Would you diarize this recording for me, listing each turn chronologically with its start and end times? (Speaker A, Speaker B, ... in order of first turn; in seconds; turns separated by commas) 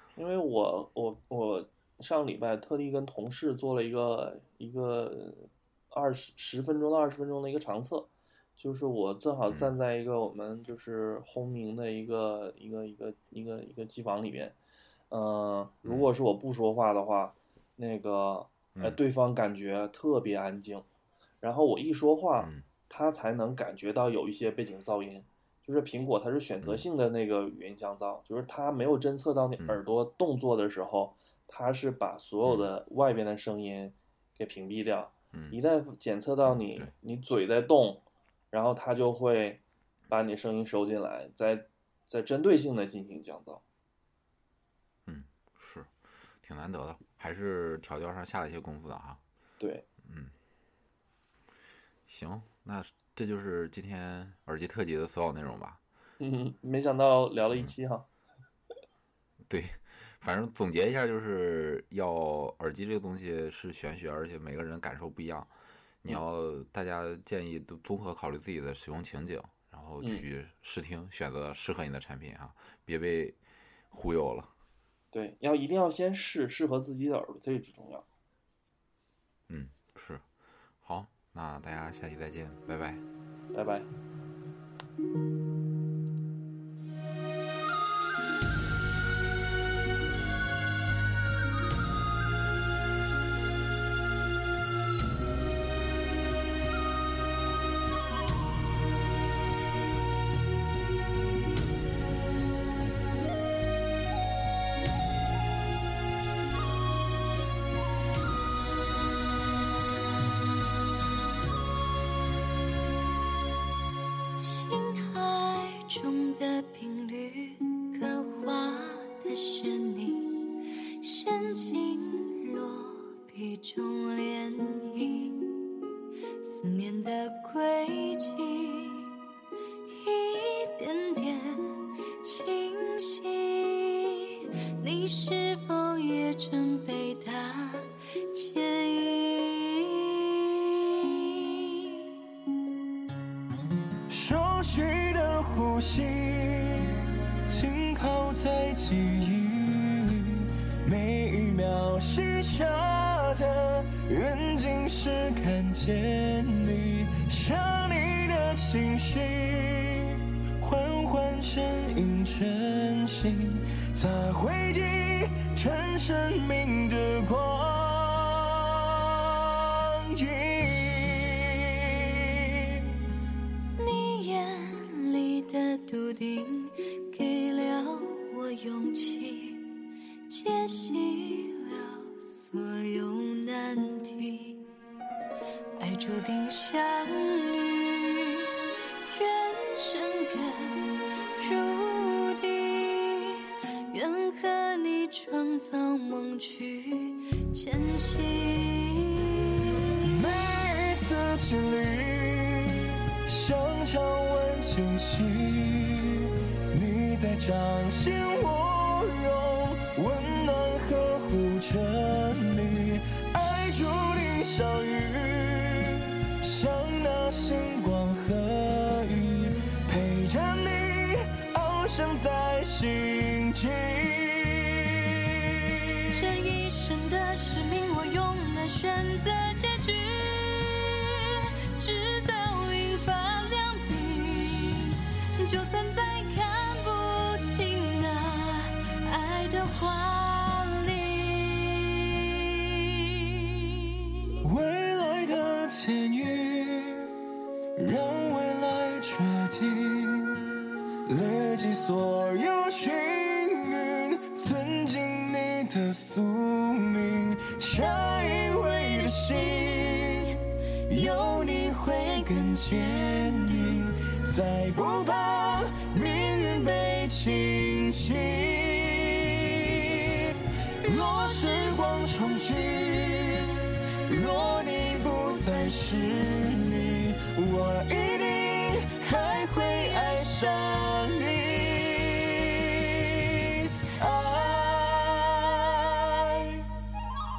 Speaker A: 0.1-14.6, Speaker A: 15.1-20.8, Speaker B: 15.8-16.1, Speaker A: 21.4-43.6, Speaker B: 22.4-22.6, Speaker B: 35.3-35.6, Speaker B: 36.5-36.9, Speaker B: 45.0-45.9, Speaker B: 46.4-49.2, Speaker A: 49.6-49.9, Speaker B: 50.0-50.3, Speaker B: 52.1-55.8, Speaker A: 56.2-58.1, Speaker B: 59.4-65.5, Speaker B: 66.0-73.4, Speaker B: 73.9-74.5, Speaker A: 75.1-78.0, Speaker B: 79.5-80.2, Speaker B: 80.8-83.0, Speaker A: 83.5-83.9, Speaker C: 114.3-129.2, Speaker C: 129.8-142.2, Speaker D: 144.1-172.8, Speaker C: 173.8-184.7, Speaker C: 185.8-199.9, Speaker D: 200.0-226.1, Speaker C: 226.1-244.3, Speaker D: 244.4-247.1, Speaker D: 247.8-250.5, Speaker D: 251.1-286.7